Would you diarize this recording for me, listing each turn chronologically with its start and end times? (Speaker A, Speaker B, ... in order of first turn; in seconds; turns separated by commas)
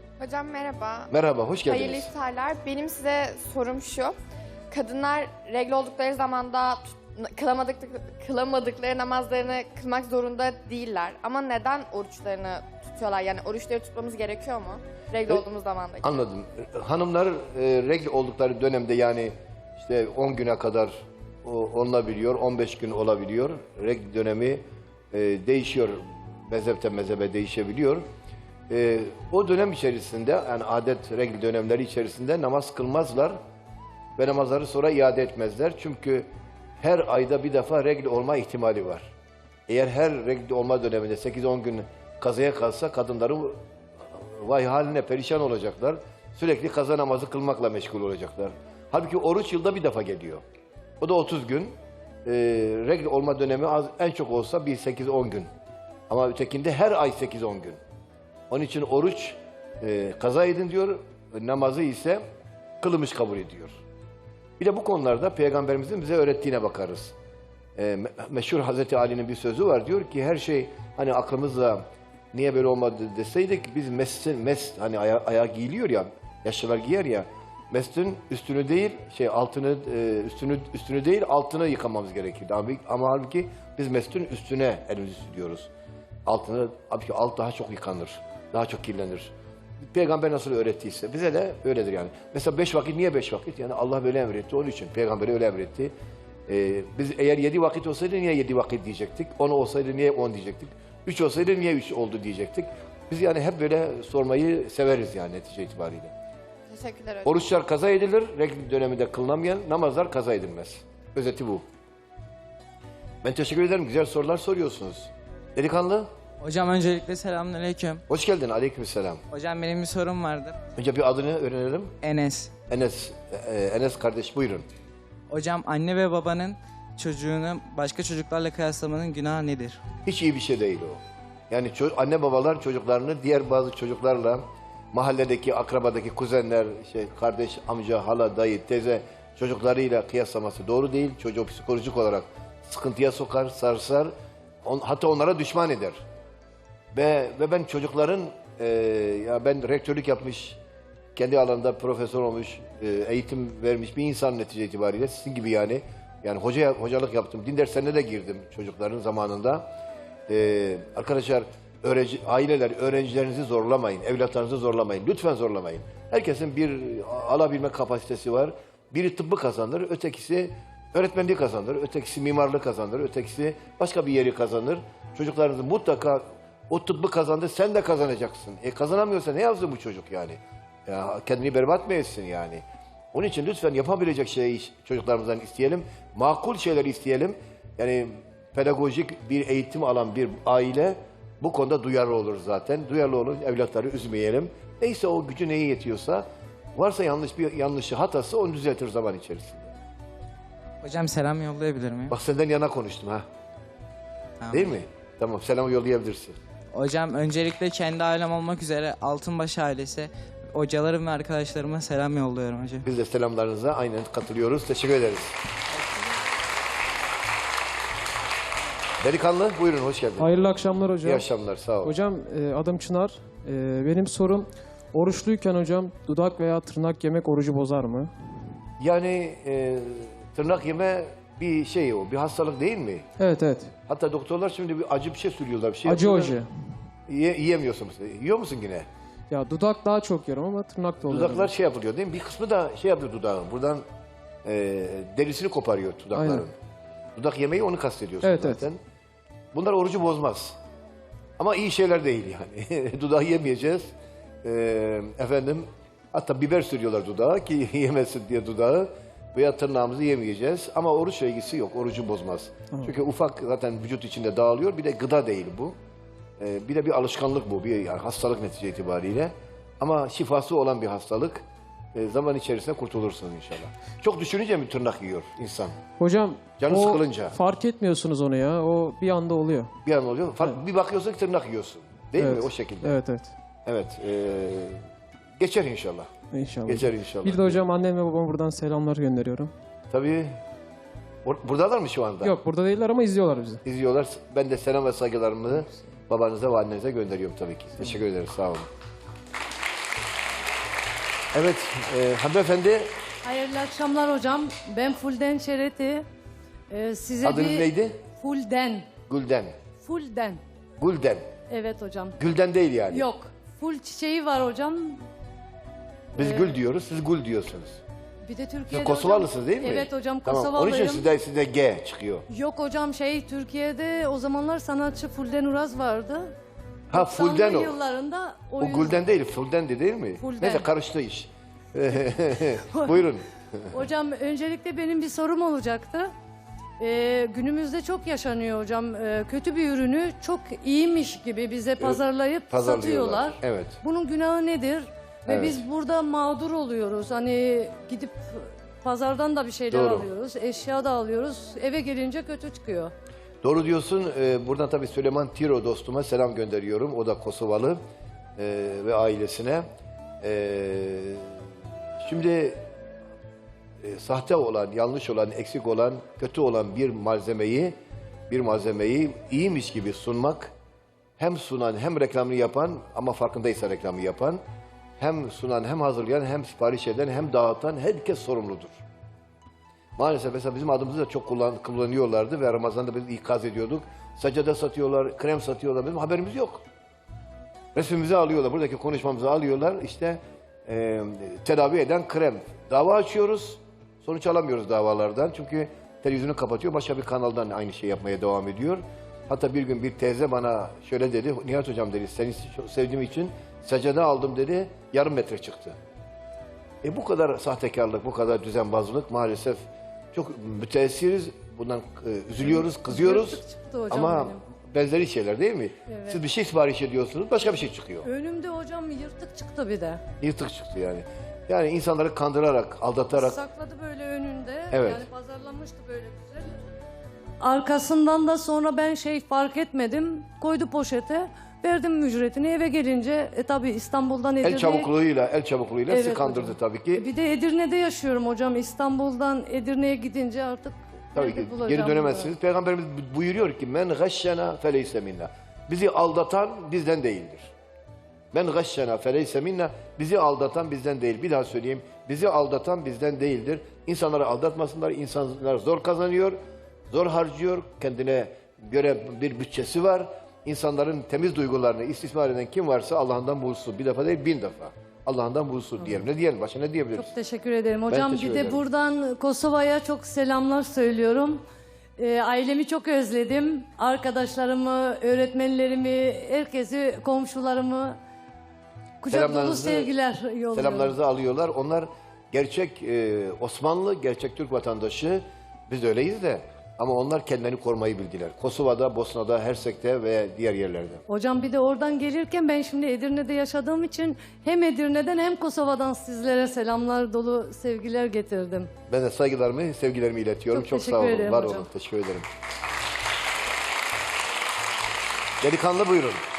Speaker A: 0.2-1.1, Speaker B: 1.1-2.1, Speaker A: 1.6-4.2, Speaker A: 4.7-16.2, Speaker B: 16.0-28.1, Speaker B: 28.7-33.4, Speaker B: 34.2-36.3, Speaker B: 36.8-39.1, Speaker B: 39.7-43.6, Speaker B: 44.1-50.4, Speaker B: 51.0-55.5, Speaker B: 56.1-57.8, Speaker B: 58.5-62.2, Speaker B: 62.8-63.8, Speaker B: 64.6-67.1, Speaker B: 67.8-85.7, Speaker B: 86.3-89.3, Speaker B: 89.9-95.9, Speaker B: 96.5-106.1, Speaker A: 106.7-107.4, Speaker B: 107.2-111.6, Speaker B: 113.2-116.1, Speaker C: 116.4-118.0, Speaker B: 118.1-119.2, Speaker C: 119.3-120.6, Speaker B: 120.8-121.9, Speaker C: 122.0-122.5, Speaker B: 122.7-124.6, Speaker C: 125.3-129.8, Speaker B: 130.0-144.1, Speaker B: 144.6-146.0, Speaker B: 146.9-150.6, Speaker B: 151.2-159.7, Speaker B: 160.3-199.7, Speaker C: 200.8-202.2, Speaker B: 202.1-203.2, Speaker C: 204.4-204.7, Speaker B: 204.5-206.4, Speaker C: 206.7-212.8, Speaker B: 212.8-215.3, Speaker B: 219.0-220.4, Speaker D: 220.2-221.2, Speaker B: 221.0-221.9, Speaker D: 221.8-228.1, Speaker B: 228.8-233.1, Speaker D: 233.2-233.7, Speaker B: 233.9-236.4, Speaker D: 235.8-236.5, Speaker B: 237.1-238.9, Speaker D: 239.3-241.5, Speaker B: 241.0-243.8, Speaker B: 244.4-246.5, Speaker D: 246.1-246.4, Speaker B: 247.2-248.8, Speaker D: 248.2-248.6, Speaker B: 249.5-250.6, Speaker B: 251.4-253.9, Speaker B: 254.4-265.8, Speaker B: 266.4-271.4, Speaker B: 271.9-275.8, Speaker D: 276.0-279.7, Speaker B: 276.6-277.4, Speaker B: 279.8-282.9, Speaker D: 282.2-283.3, Speaker B: 283.6-284.8, Speaker B: 285.4-286.1, Speaker D: 286.3-289.5, Speaker B: 286.6-287.6, Speaker B: 289.9-290.4, Speaker B: 291.2-292.3, Speaker D: 292.2-293.6, Speaker B: 293.6-298.7, Speaker B: 301.3-302.9, Speaker E: 303.2-306.1, Speaker E: 306.7-308.9, Speaker B: 307.2-308.0, Speaker B: 309.1-309.6, Speaker E: 309.8-310.4, Speaker B: 310.8-311.3, Speaker E: 311.5-312.1, Speaker B: 312.2-313.1, Speaker E: 312.9-315.0, Speaker B: 316.1-317.8, Speaker E: 316.2-316.5, Speaker E: 318.2-321.1, Speaker B: 318.7-322.2, Speaker E: 322.3-326.3, Speaker B: 326.9-327.8, Speaker E: 326.9-329.0, Speaker B: 328.6-333.7, Speaker E: 330.2-330.7, Speaker E: 332.6-333.1, Speaker E: 333.7-336.1, Speaker E: 336.8-352.9, Speaker B: 341.8-343.8, Speaker B: 345.3-345.6, Speaker B: 349.7-350.1, Speaker B: 353.4-357.8, Speaker B: 358.4-359.7, Speaker B: 360.2-361.4, Speaker B: 362.0-362.7, Speaker B: 363.8-367.8, Speaker B: 368.3-370.5, Speaker B: 371.2-374.4, Speaker B: 375.0-378.8, Speaker B: 380.0-386.6, Speaker B: 387.7-405.8, Speaker B: 406.8-418.1, Speaker E: 412.4-414.4, Speaker E: 415.9-416.2, Speaker E: 418.0-420.0, Speaker B: 420.2-423.4, Speaker E: 423.1-426.6, Speaker B: 424.7-425.0, Speaker E: 427.4-434.9, Speaker B: 434.4-437.1, Speaker E: 435.9-442.3, Speaker B: 441.1-447.5, Speaker B: 448.3-456.4, Speaker B: 456.9-467.1, Speaker E: 466.9-471.4, Speaker B: 467.9-468.6, Speaker E: 472.0-478.0, Speaker E: 479.0-480.9, Speaker B: 479.1-479.9, Speaker B: 480.5-491.0, Speaker E: 491.1-498.7, Speaker B: 498.9-502.3, Speaker E: 500.5-501.7, Speaker B: 505.4-506.2